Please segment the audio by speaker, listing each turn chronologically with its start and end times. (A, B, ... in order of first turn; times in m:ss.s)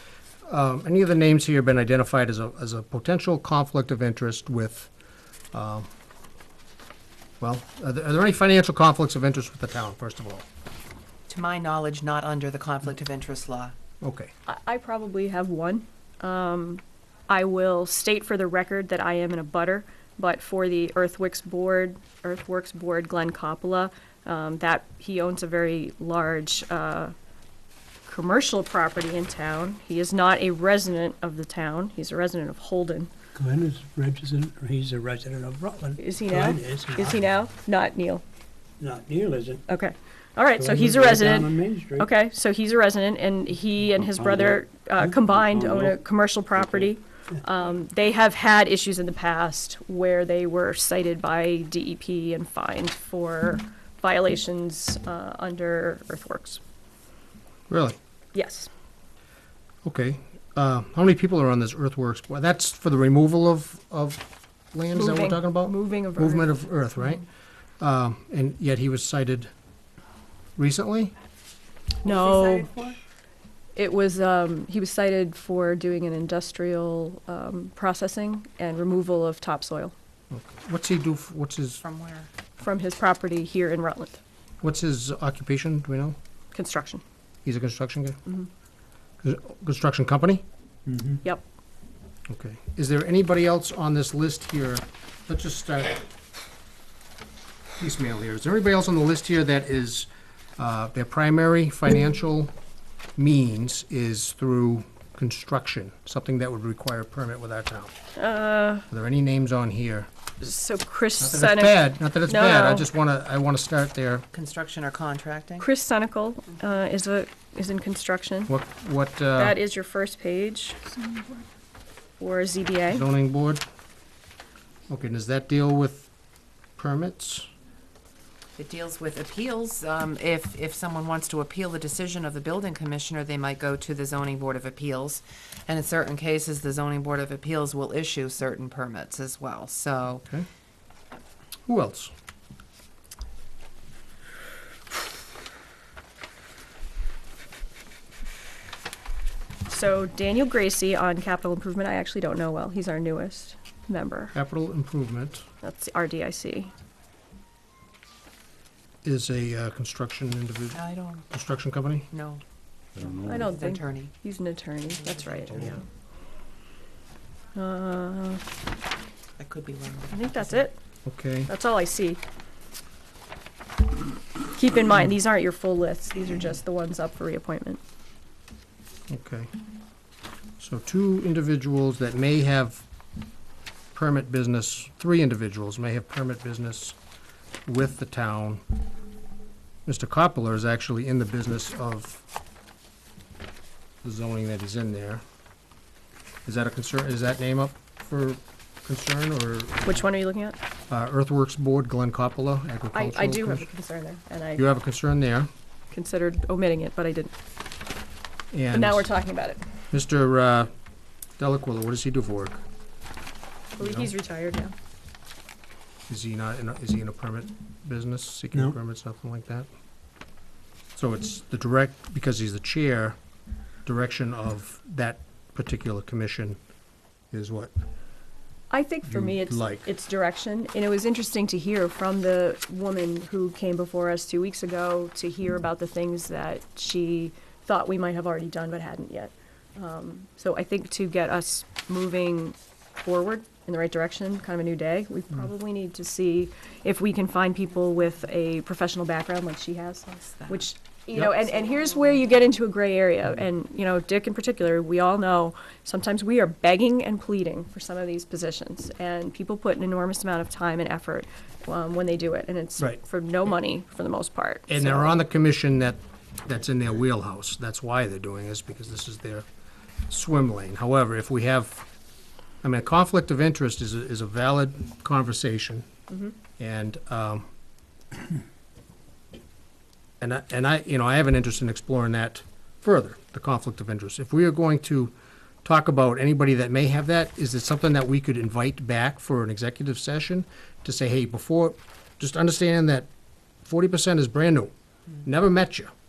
0:00.5-0:04.9 A
0:05.5-0:05.9 A
0:07.4-0:10.4 A
0:11.3-0:13.8 B
0:14.0-0:14.3 A
0:14.5-0:27.1 C
0:28.1-0:33.1 C
0:33.4-0:37.2 D
0:36.0-0:38.2 C
0:38.8-0:39.6 D
0:39.7-0:56.6 C
0:40.6-0:42.1 D
0:45.0-0:46.0 D
0:57.7-0:58.0 A
0:58.3-0:58.7 C
0:59.8-1:07.2 A
1:05.0-1:07.2 C
1:07.8-1:09.5 A
1:10.6-1:11.1 A
1:12.0-1:12.7 C
1:12.0-1:13.0 B
1:13.8-1:19.9 C
1:20.3-1:21.8 A
1:21.8-1:22.3 B
1:22.6-1:24.2 C
1:24.6-1:26.2 A
1:26.5-1:27.0 C
1:27.4-1:28.2 A
1:29.2-1:30.4 A
1:30.9-1:31.2 D
1:32.3-1:36.1 A
1:37.8-1:42.5 A
1:43.2-1:47.9 A
1:48.2-1:48.9 C
1:48.9-1:50.1 A
1:50.4-1:52.9 C
1:51.2-1:54.3 A
1:54.3-1:55.7 B
1:55.6-1:58.5 C
1:58.5-1:59.6 A
1:59.4-2:01.3 C
2:02.2-2:03.1 C
2:02.9-2:03.6 A
2:04.9-2:06.1 A
2:06.8-2:07.5 A
2:08.6-2:20.2 B
2:21.7-2:22.1 A
2:29.7-2:34.4 C
2:34.3-2:35.5 A
2:35.6-2:36.7 C
2:39.0-2:42.1 A
2:40.7-2:41.3 B
2:42.1-2:42.4 B
2:43.1-2:44.1 B
2:43.1-2:45.8 C
2:45.0-2:45.8 B
2:47.6-2:48.4 C
2:49.4-2:50.7 B
2:50.1-2:50.8 C
2:51.1-2:51.5 A
2:51.5-2:52.2 C
2:54.6-2:57.8 C
2:59.1-2:59.5 A
3:00.6-3:02.8 A
3:03.9-3:07.0 A
3:07.7-3:08.6 A
3:09.9-3:12.2 A
3:14.0-3:15.2 A
3:16.5-3:20.1 A
3:19.8-3:20.6 C
3:20.9-3:23.7 A
3:22.9-3:24.7 C
3:24.6-3:25.5 A
3:25.9-3:27.3 C
3:28.5-3:29.1 A
3:28.7-3:29.6 C
3:29.9-3:30.7 A
3:31.4-3:32.6 A
3:33.8-3:34.7 C
3:33.8-3:34.1 A
3:36.1-3:39.7 A
3:41.0-3:43.2 A
3:43.8-3:46.6 A
3:47.3-3:47.7 A
3:48.7-4:25.2 C
3:49.1-3:49.9 A
4:10.2-4:10.7 B
4:24.7-4:29.5 A
4:30.1-4:31.9 A
4:32.6-4:35.9 A
4:36.6-4:37.5 A
4:40.2-4:45.1 A
4:45.6-4:53.1 A
4:53.6-4:54.7 A
4:55.2-4:55.9 A